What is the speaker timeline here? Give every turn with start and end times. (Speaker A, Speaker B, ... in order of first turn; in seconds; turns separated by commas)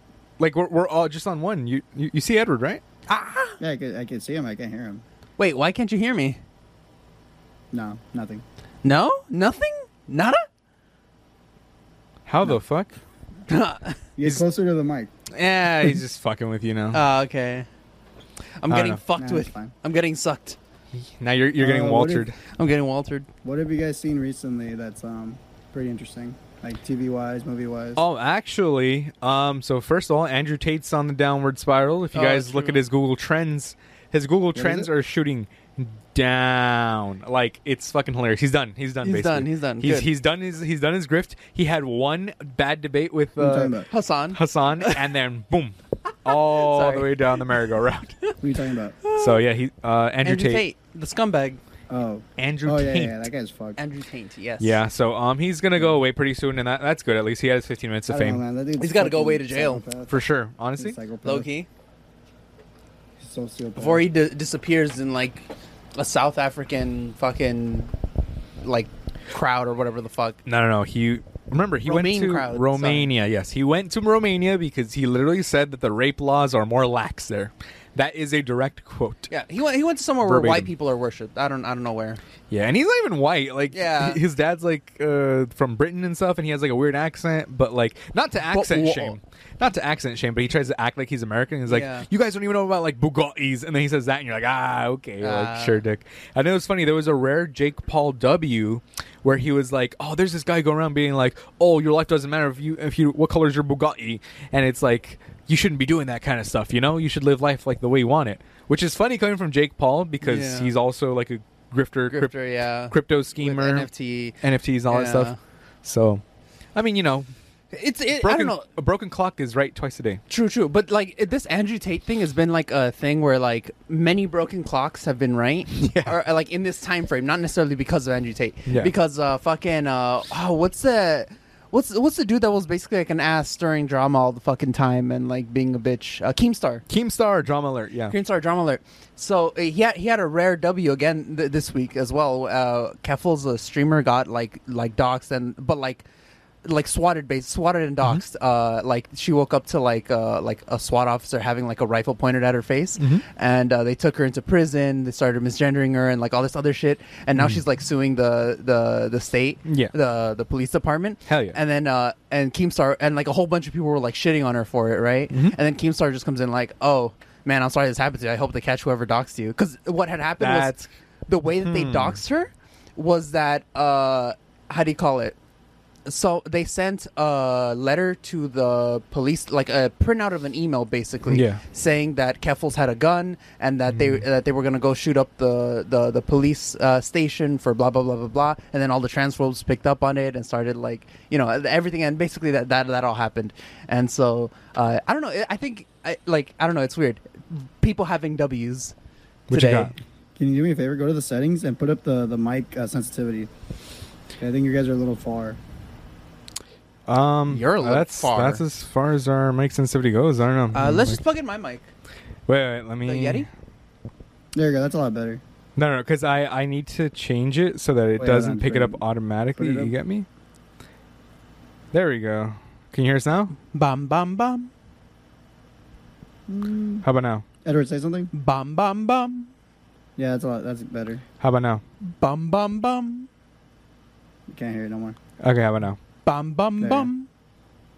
Speaker A: 0.4-2.8, Speaker B: 3.1-3.6, Speaker C: 3.6-5.0, Speaker B: 5.4-6.4, Speaker C: 7.7-8.4, Speaker B: 8.8-10.4, Speaker A: 12.2-12.9, Speaker B: 13.5-14.0, Speaker C: 14.2-15.1, Speaker A: 15.3-17.0, Speaker B: 16.9-17.7, Speaker B: 18.6-20.6, Speaker A: 18.7-19.0, Speaker C: 19.1-19.7, Speaker A: 21.2-22.3, Speaker C: 21.6-22.3, Speaker B: 22.5-23.3, Speaker C: 23.4-28.0, Speaker A: 27.9-43.8, Speaker B: 32.1-32.8, Speaker C: 34.5-34.9, Speaker B: 39.0-40.1, Speaker C: 43.4-43.9, Speaker B: 43.9-45.0, Speaker A: 44.3-48.2, Speaker B: 46.3-47.6, Speaker C: 48.4-49.0, Speaker B: 49.0-49.4, Speaker A: 49.1-50.6, Speaker B: 50.2-51.6, Speaker C: 51.9-53.8, Speaker A: 52.4-53.2, Speaker B: 53.8-54.8, Speaker A: 54.6-58.4, Speaker C: 58.1-60.2, Speaker B: 58.8-59.8, Speaker A: 60.1-61.0, Speaker C: 60.8-61.5, Speaker B: 61.2-61.7, Speaker C: 63.2-64.0, Speaker B: 63.8-67.9, Speaker B: 68.6-70.4, Speaker A: 70.5-79.3, Speaker B: 71.8-73.1, Speaker B: 79.3-82.2, Speaker A: 80.2-80.7, Speaker A: 82.5-113.9, Speaker B: 83.7-84.2, Speaker B: 88.4-89.2, Speaker B: 91.7-92.1, Speaker B: 95.2-95.8, Speaker B: 110.2-110.7, Speaker B: 112.1-114.4, Speaker A: 114.4-115.3, Speaker B: 114.9-115.4, Speaker A: 115.8-116.2, Speaker A: 116.7-117.3, Speaker B: 117.7-118.7, Speaker A: 118.2-120.2, Speaker B: 120.3-136.8, Speaker A: 125.7-126.2, Speaker A: 136.9-138.1, Speaker B: 138.1-146.0, Speaker B: 146.6-170.7, Speaker A: 153.0-153.2, Speaker A: 159.7-159.9, Speaker A: 161.3-161.6, Speaker A: 170.4-170.9, Speaker B: 171.3-175.4, Speaker A: 171.6-172.2, Speaker B: 176.1-198.9, Speaker A: 181.3-181.6, Speaker A: 183.9-184.2, Speaker A: 199.5-199.9, Speaker B: 199.5-199.9, Speaker C: 200.4-203.5, Speaker C: 204.4-205.6, Speaker A: 207.1-211.2, Speaker B: 207.5-208.6, Speaker B: 210.7-211.9, Speaker A: 212.5-213.5, Speaker B: 213.0-213.5, Speaker C: 214.5-215.4, Speaker A: 215.8-220.2, Speaker C: 218.2-219.0, Speaker C: 219.6-219.9, Speaker A: 221.9-223.6, Speaker B: 223.7-224.7, Speaker C: 226.5-227.0, Speaker A: 227.0-227.4, Speaker C: 227.6-228.3, Speaker B: 228.3-229.5, Speaker C: 230.2-231.2, Speaker A: 231.4-231.8, Speaker B: 232.2-233.3, Speaker C: 234.5-235.2, Speaker A: 235.4-236.0, Speaker B: 236.2-237.3, Speaker C: 236.8-237.1